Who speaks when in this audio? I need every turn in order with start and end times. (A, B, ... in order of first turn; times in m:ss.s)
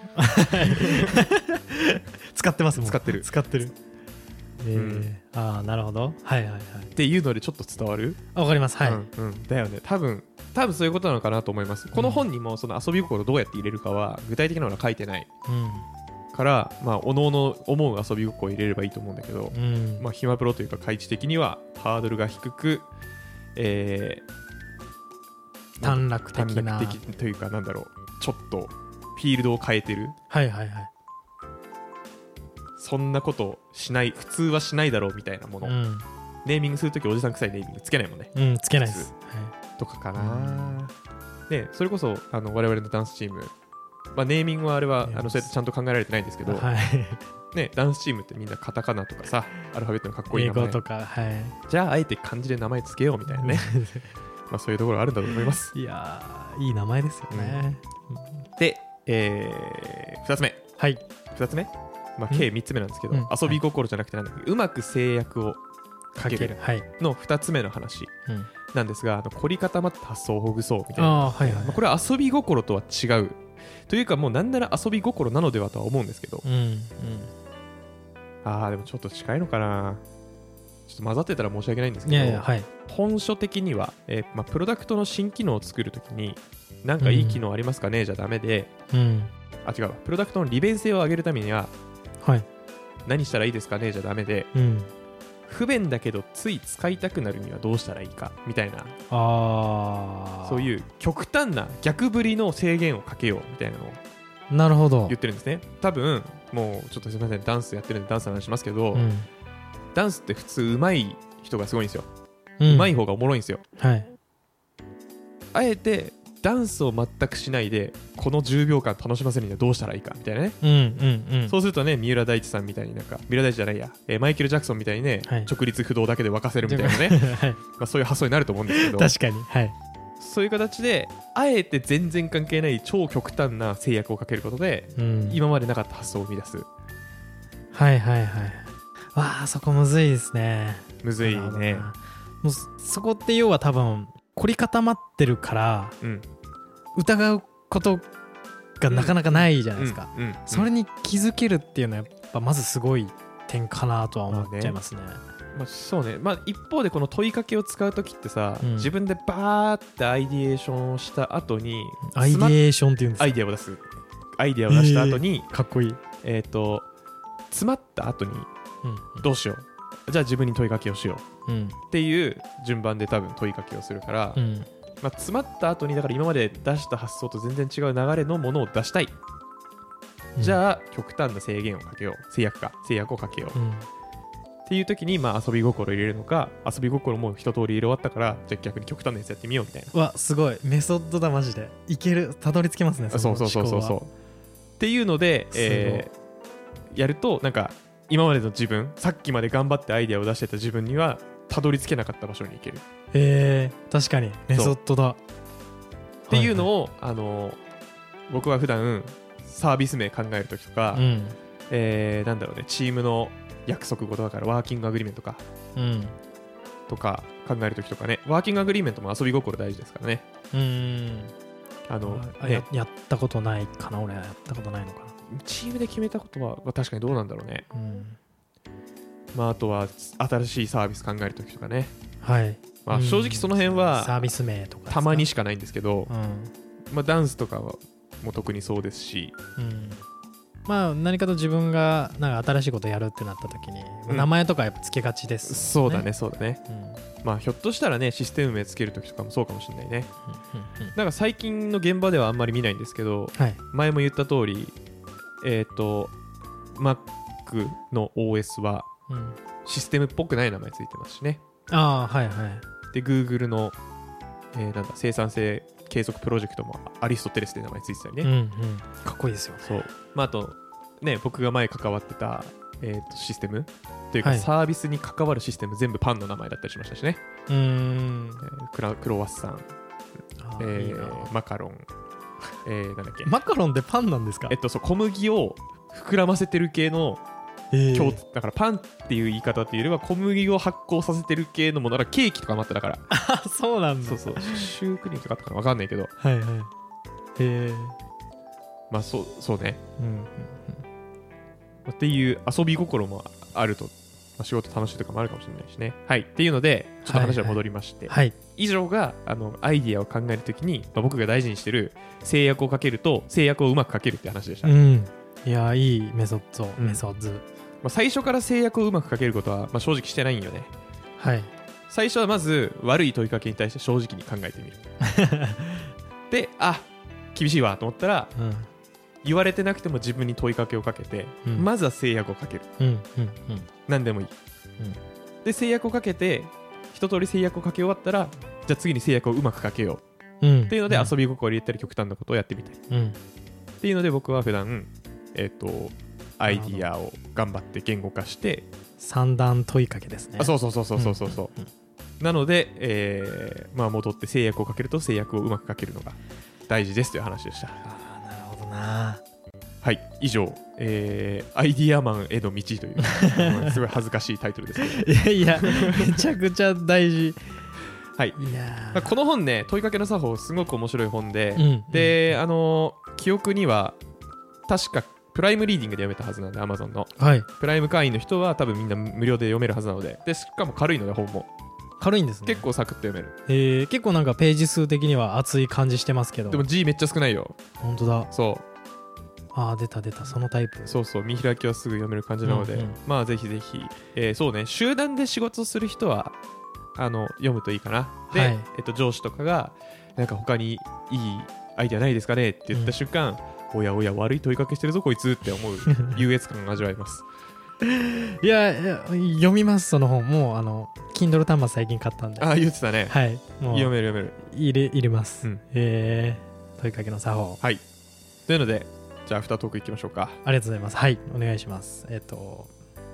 0:00.2-0:03.7 A
0:00.5-0:01.2 B
0:02.8-0:03.3 B
0:04.6-0:06.9 A
0:04.7-0:05.1 B
0:07.0-0:08.2 B
0:08.3-0:09.0 A
0:08.8-0:15.3 B
0:11.9-0:12.3 A
0:15.5-0:15.9 A
0:16.3-0:22.9 B
0:19.5-0:20.1 A
0:23.6-0:24.2 B
0:25.8-0:30.2 B
0:25.8-0:27.0 A
0:30.3-0:30.9 A
0:32.8-0:35.8 B
0:35.6-0:36.1 A
0:36.4-0:39.1 B
0:38.4-0:39.5 A
0:39.8-0:40.9 B
0:40.2-0:40.8 A
0:41.5-0:43.5 B
0:44.1-0:46.7 B
0:45.1-0:45.5 A
0:46.4-0:47.2 A
0:47.5-0:50.8 B
0:50.3-0:51.6 A
0:51.7-0:53.8 B
0:53.3-0:54.1 A
0:54.5-0:55.7 B
0:55.4-0:58.4 A
0:57.3-0:57.6 B
0:58.6-1:00.6 B
1:00.8-1:01.0 A
1:01.3-1:05.6 B
1:03.1-1:03.6 A
1:06.2-1:08.1 B
1:06.2-1:06.9 A
1:08.7-1:16.4 B
1:11.0-1:11.8 A
1:16.4-1:17.3 A
1:18.4-1:20.0 B
1:20.9-1:28.7 B
1:22.1-1:22.7 A
1:27.0-1:27.4 A
1:28.9-1:29.3 A
1:29.6-1:31.7 B
1:32.2-1:32.5 A
1:33.1-1:34.5 B
1:34.5-1:34.9 A
1:35.5-1:39.0 B
1:39.1-1:40.7 A
1:40.4-1:44.0 B
1:44.5-1:45.2 A
1:45.1-1:49.1 B
1:49.0-1:49.3 A
1:50.0-1:52.1 B
1:52.6-1:53.0 A
1:52.7-1:53.6 B
1:53.8-1:54.1 A
1:55.5-2:00.6 B
2:00.6-2:01.6 A
2:01.5-2:09.1 B
2:05.3-2:05.5 A
2:06.6-2:07.6 A
2:08.7-2:09.8 A
2:10.2-2:16.7 B
2:15.0-2:15.4 A
2:17.7-2:26.0 A
2:21.0-2:21.9 B
2:26.0-2:26.3 B
2:27.0-2:28.1 A
2:28.8-2:35.2 A
2:28.9-2:30.7 B
2:34.3-2:34.8 B
2:35.5-2:42.6 B
2:38.6-2:38.9 A
2:42.1-2:43.4 A
2:43.2-2:43.8 B
2:44.4-2:45.5 B
2:44.7-2:46.0 A
2:46.2-2:46.9 B
2:47.5-2:48.5 B
2:48.8-2:49.3 A
2:49.2-2:51.2 B
2:51.5-2:51.8 A
2:51.9-2:54.4 B
2:54.4-2:54.7 A
2:55.0-2:59.1 B
3:00.4-3:03.6 B
3:03.5-3:03.9 A
3:04.7-3:09.9 B
3:09.9-3:14.0 A
3:13.1-3:14.1 B
3:14.8-3:16.1 B
3:15.5-3:16.1 A
3:16.9-3:22.8 B
3:23.1-3:25.2 A
3:26.3-3:26.7 A
3:26.3-3:27.6 B
3:28.3-3:31.0 B
3:30.9-3:31.4 A
3:31.7-3:35.4 B
3:35.8-3:36.2 A
3:36.9-3:40.2 B
3:40.5-3:41.3 A
3:41.9-3:42.7 B
3:42.0-3:45.2 A
3:45.3-3:47.7 B
3:47.7-3:48.2 A
3:49.3-3:51.9 B
3:52.2-3:55.3 A
3:52.8-3:54.3 B
3:54.9-3:56.1 B
3:56.1-3:56.5 A
3:56.9-3:59.4 B
3:59.6-4:00.0 A
4:00.7-4:06.1 A
4:05.5-4:06.6 B
4:06.7-4:07.0 A
4:07.2-4:10.1 B
4:10.3-4:11.0 A
4:11.0-4:14.8 B
4:15.4-4:16.1 B
4:16.8-4:18.9 B
4:19.1-4:19.4 A
4:19.6-4:21.4 B
4:21.7-4:22.6 A
4:22.9-4:23.8 B
4:24.5-4:28.3 B
4:28.2-4:29.8 A
4:29.6-4:37.2 B
4:34.2-4:34.5 A
4:37.5-4:38.5 A
4:38.4-4:39.7 B
4:40.4-4:41.3 A
4:40.6-4:41.9 B
4:42.6-4:43.3 B
4:43.2-4:44.6 A
4:44.5-4:47.2 B
4:47.7-4:48.2 A
4:47.9-4:53.0 B
4:53.1-4:54.7 A
4:54.0-4:56.1 B
4:56.2-4:56.7 A
4:57.4-4:58.0 A
4:58.9-4:59.8 B
5:00.0-5:00.8 A
5:01.9-5:14.7 B
5:07.1-5:08.4 A
5:14.6-5:17.4 A
5:17.8-5:20.7 B
5:21.2-5:21.5 A
5:21.9-5:24.8 B
5:25.0-5:25.9 A
5:26.3-5:28.3 B
5:28.4-5:28.7 A
5:29.2-5:32.7 B
5:32.8-5:33.7 A
5:33.9-5:34.3 B
5:35.4-5:40.0 B
5:40.4-5:41.1 A
5:40.7-5:42.8 B
5:42.9-5:43.2 A
5:43.8-5:48.7 B
5:46.5-5:46.9 A
5:49.0-5:51.7 A
5:50.4-5:51.5 B
5:52.2-5:57.8 B
5:57.8-5:59.2 A
5:59.8-6:06.2 B
6:03.1-6:03.8 A
6:04.8-6:07.7 A
6:08.4-6:09.1 A
6:08.9-6:14.0 B
6:11.6-6:12.4 A
6:14.7-6:21.5 B
6:17.2-6:17.5 A
6:22.0-6:22.7 A
6:22.5-6:23.4 B
6:23.5-6:26.6 A
6:26.5-6:27.6 B
6:27.8-6:28.3 A
6:28.3-6:28.6 B
6:29.5-6:31.0 A
6:30.9-6:36.4 B
6:32.4-6:33.0 A
6:37.0-6:47.2 B
6:38.3-6:38.7 A
6:47.8-6:52.5 A
6:52.4-6:53.2 B
6:53.1-6:57.6 A
6:53.7-6:54.4 B
6:58.5-7:00.4 B
7:00.4-7:02.7 A